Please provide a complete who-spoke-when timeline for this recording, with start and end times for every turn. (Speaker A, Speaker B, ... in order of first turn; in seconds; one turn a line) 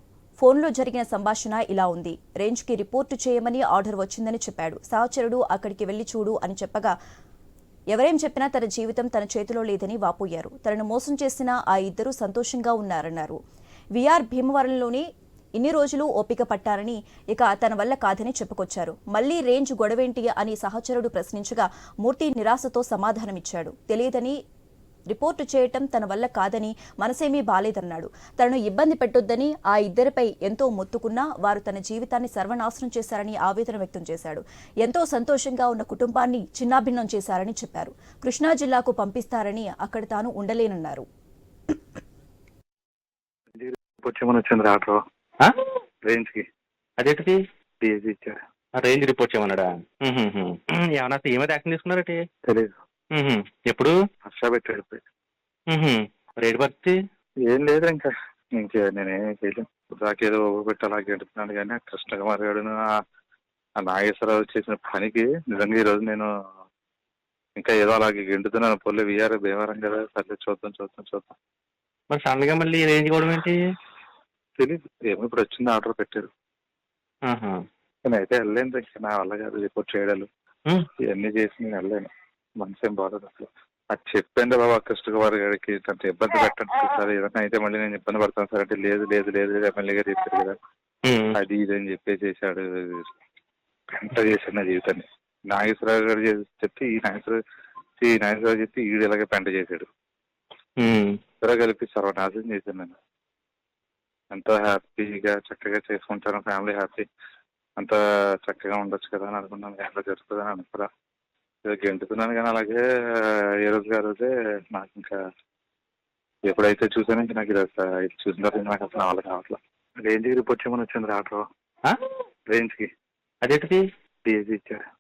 Speaker A: 0.4-6.9
Speaker A: 7.9-13.4
Speaker A: 13.9-15.0
Speaker A: 15.6-24.4
Speaker A: 25.1-41.0
Speaker B: 43.5-45.0
Speaker B: 46.0-46.5
Speaker C: 47.0-47.4
Speaker B: 47.8-48.4
Speaker C: 48.8-52.2
Speaker B: 52.5-52.7
Speaker C: 53.1-53.9
Speaker B: 54.2-55.0
Speaker C: 55.7-56.9
Speaker B: 57.5-62.8
Speaker B: 63.8-66.3
Speaker B: 67.6-71.3
Speaker C: 72.1-73.6
Speaker B: 74.6-76.3
Speaker C: 77.3-77.6
Speaker B: 78.1-80.3
Speaker B: 81.0-90.6
Speaker C: 91.1-91.3
Speaker B: 91.3-93.1
Speaker B: 93.9-97.4
Speaker B: 98.0-99.9
Speaker C: 100.8-101.1
Speaker B: 101.4-103.0
Speaker B: 104.3-107.1
Speaker B: 107.8-110.9
Speaker B: 111.6-115.2
Speaker B: 116.5-121.5
Speaker B: 122.5-122.9
Speaker C: 123.4-123.8
Speaker B: 124.2-124.8